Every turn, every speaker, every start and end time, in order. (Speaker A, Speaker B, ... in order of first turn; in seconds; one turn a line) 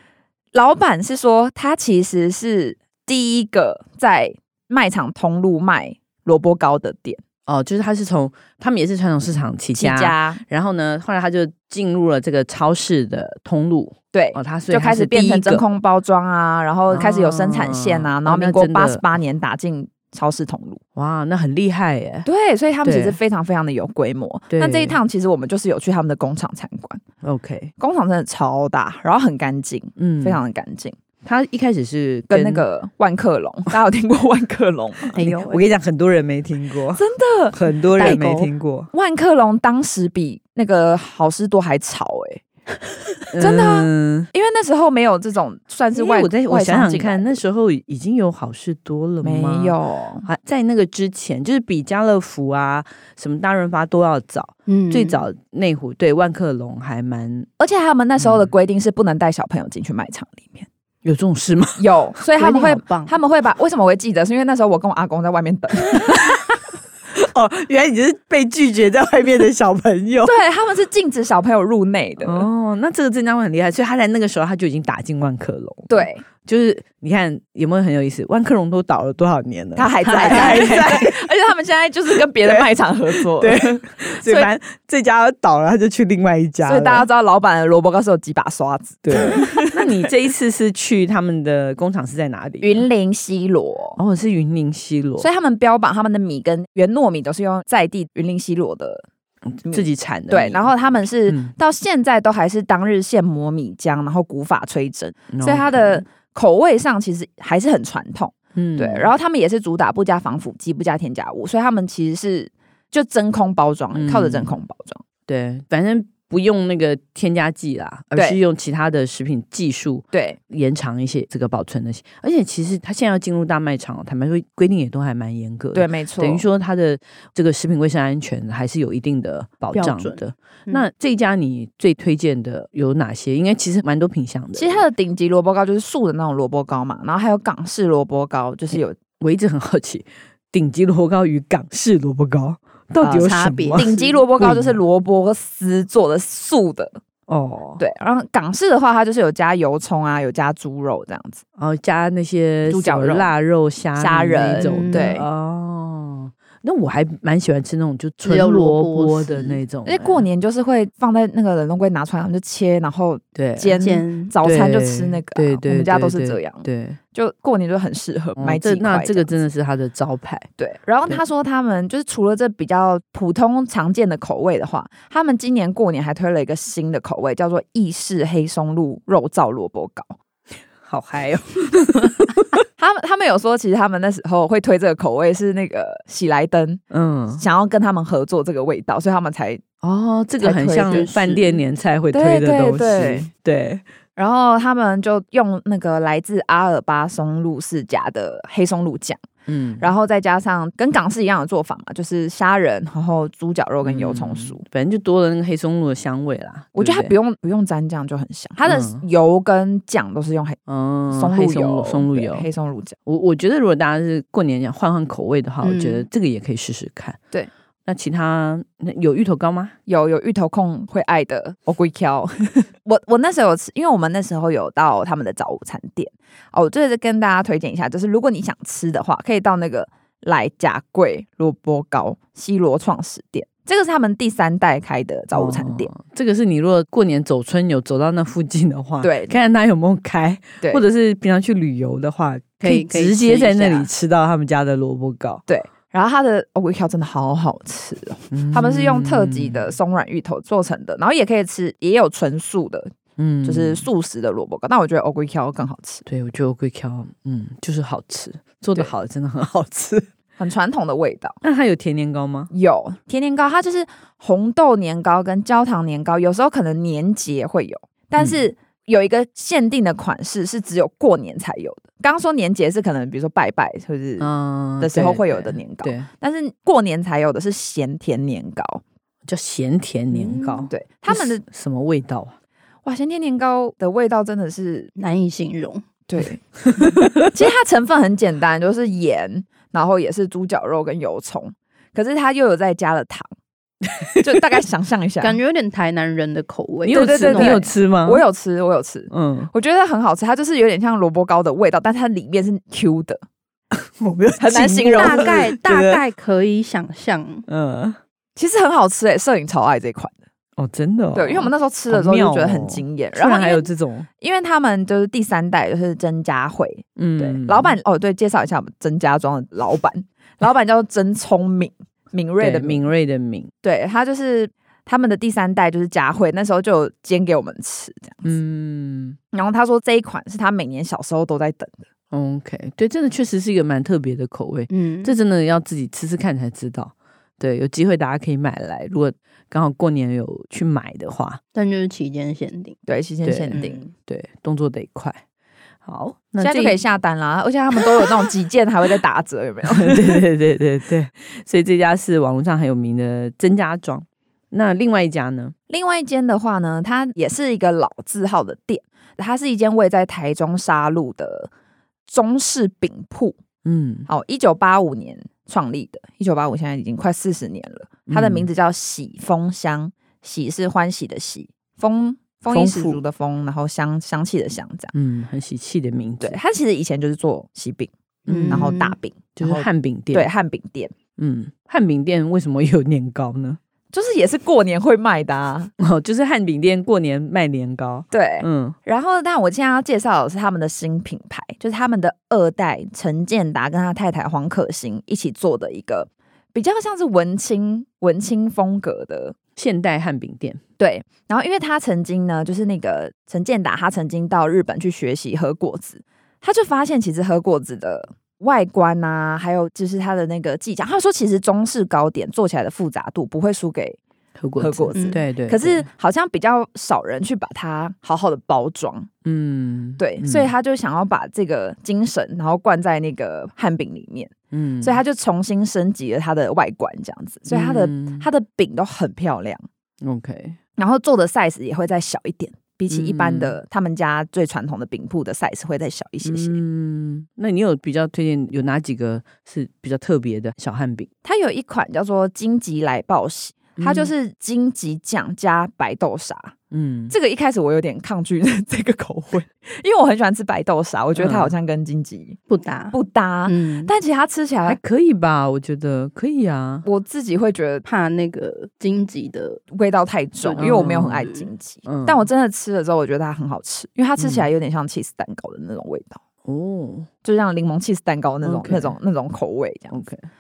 Speaker A: 0.5-7.2
Speaker B: 7.5-15.6
Speaker A: 9.7-10.4
Speaker A: 14.1-20.8
Speaker B: 16.9-19.0
Speaker B: 20.9-22.3
Speaker A: 22.2-27.0
Speaker B: 22.8-23.2
Speaker B: 24.5-25.0
Speaker B: 27.2-27.7
Speaker A: 27.8-30.9
Speaker B: 30.0-30.4
Speaker B: 31.2-32.7
Speaker A: 32.3-35.2
Speaker C: 35.1-35.6
Speaker B: 35.1-38.9
Speaker A: 36.9-38.1
Speaker C: 38.0-38.5
Speaker A: 38.9-42.4
Speaker B: 43.3-44.3
Speaker A: 43.4-47.4
Speaker B: 45.9-57.5
Speaker A: 49.2-50.3
Speaker C: 54.7-55.2
Speaker A: 57.6-60.7
Speaker B: 58.2-58.5
Speaker B: 61.0-61.8
Speaker A: 61.8-66.4
Speaker C: 62.4-63.1
Speaker B: 65.9-66.5
Speaker B: 67.1-70.3
Speaker A: 70.2-72.5
Speaker B: 72.2-81.2
Speaker A: 75.9-76.2
Speaker A: 79.8-84.5
Speaker C: 80.0-80.7
Speaker B: 82.2-87.0
Speaker A: 86.6-89.9
Speaker B: 89.0-92.8
Speaker A: 92.6-94.0
Speaker B: 94.0-95.2
Speaker A: 95.2-99.0
Speaker B: 99.5-100.7
Speaker A: 99.6-115.0
Speaker B: 101.3-101.5
Speaker B: 105.3-106.0
Speaker B: 108.5-109.1
Speaker B: 113.9-114.5
Speaker B: 115.3-134.8
Speaker A: 120.1-120.4
Speaker A: 125.7-126.4
Speaker C: 129.7-130.8
Speaker A: 134.6-138.9
Speaker B: 138.7-143.9
Speaker A: 143.0-147.0
Speaker C: 143.2-144.2
Speaker B: 144.4-144.8
Speaker B: 147.3-147.8
Speaker A: 147.8-151.4
Speaker B: 151.6-160.2
Speaker A: 152.7-153.3
Speaker A: 154.0-155.2
Speaker C: 154.6-155.2
Speaker C: 158.2-159.6
Speaker A: 159.8-169.5
Speaker B: 163.3-163.8
Speaker C: 163.8-164.3
Speaker B: 164.4-167.0
Speaker B: 168.4-170.5
Speaker A: 170.6-180.1
Speaker B: 180.8-182.6
Speaker A: 182.8-186.8
Speaker B: 186.9-187.4
Speaker A: 187.3-189.6
Speaker B: 189.8-193.8
Speaker A: 190.4-191.2
Speaker C: 190.8-191.6
Speaker A: 192.1-193.3
Speaker A: 194.2-199.2
Speaker B: 199.5-199.9
Speaker A: 199.8-204.6
Speaker B: 203.8-207.1
Speaker A: 206.8-212.9
Speaker B: 208.6-209.1
Speaker B: 210.7-212.5
Speaker B: 213.1-217.2
Speaker C: 215.6-216.1
Speaker B: 217.8-219.7
Speaker A: 219.9-235.9
Speaker B: 235.3-245.4
Speaker A: 239.0-239.3
Speaker C: 242.6-243.8
Speaker A: 245.5-256.0
Speaker B: 248.3-249.7
Speaker B: 253.2-253.8
Speaker B: 256.1-260.1
Speaker A: 260.4-261.4
Speaker B: 261.4-262.5
Speaker A: 262.5-278.8
Speaker B: 274.2-276.1
Speaker B: 279.2-282.3
Speaker C: 280.2-280.7
Speaker A: 280.7-281.4
Speaker A: 282.8-284.9
Speaker C: 285.0-285.8
Speaker A: 286.1-293.3
Speaker B: 286.6-287.3
Speaker B: 294.0-294.4
Speaker A: 294.2-295.4
Speaker C: 295.2-297.6
Speaker B: 296.9-298.2
Speaker A: 296.9-303.2
Speaker B: 299.1-299.5
Speaker B: 303.7-306.0
Speaker A: 304.4-305.4
Speaker C: 304.9-307.4
Speaker B: 307.5-308.0
Speaker A: 308.4-310.2
Speaker B: 310.6-314.1
Speaker A: 311.1-313.7
Speaker A: 314.2-322.9
Speaker B: 317.0-317.8
Speaker B: 322.4-323.5
Speaker A: 323.6-328.3
Speaker B: 328.2-329.2
Speaker A: 329.3-331.8
Speaker B: 332.1-341.4
Speaker C: 334.7-335.1
Speaker C: 341.5-342.8
Speaker A: 342.9-343.8
Speaker B: 343.2-345.2
Speaker C: 343.5-343.9
Speaker B: 345.8-346.8
Speaker A: 346.4-350.2
Speaker B: 349.7-355.5
Speaker A: 355.7-361.5
Speaker A: 362.1-363.4
Speaker B: 363.6-364.1
Speaker A: 364.1-374.9
Speaker B: 368.1-368.5
Speaker B: 372.5-373.0
Speaker B: 374.9-376.4
Speaker A: 376.2-377.9
Speaker B: 378.3-378.7
Speaker C: 378.3-378.9
Speaker A: 378.4-380.9
Speaker B: 379.4-380.3
Speaker B: 381.2-383.6
Speaker A: 383.9-385.7
Speaker B: 385.8-388.8
Speaker A: 388.1-399.4
Speaker B: 399.6-400.6
Speaker A: 400.8-414.0
Speaker B: 414.4-415.9
Speaker A: 414.6-419.1
Speaker C: 414.9-415.2
Speaker B: 419.2-420.5
Speaker A: 420.0-429.6
Speaker B: 424.5-425.0
Speaker B: 427.5-428.3
Speaker B: 430.0-430.6
Speaker A: 430.8-436.6
Speaker B: 432.9-433.5
Speaker B: 436.2-441.1
Speaker A: 441.2-446.5
Speaker B: 443.8-444.1
Speaker B: 446.7-447.1
Speaker A: 447.1-452.4
Speaker B: 451.2-451.5
Speaker C: 452.5-453.9
Speaker A: 452.9-454.8
Speaker B: 454.6-456.8
Speaker A: 456.8-457.8
Speaker C: 457.9-459.6
Speaker A: 459.7-466.2
Speaker C: 460.4-461.5
Speaker B: 460.6-461.3
Speaker B: 461.9-462.3
Speaker B: 464.2-464.5
Speaker B: 466.4-467.1
Speaker A: 467.2-470.0
Speaker B: 468.4-468.9
Speaker B: 469.9-470.3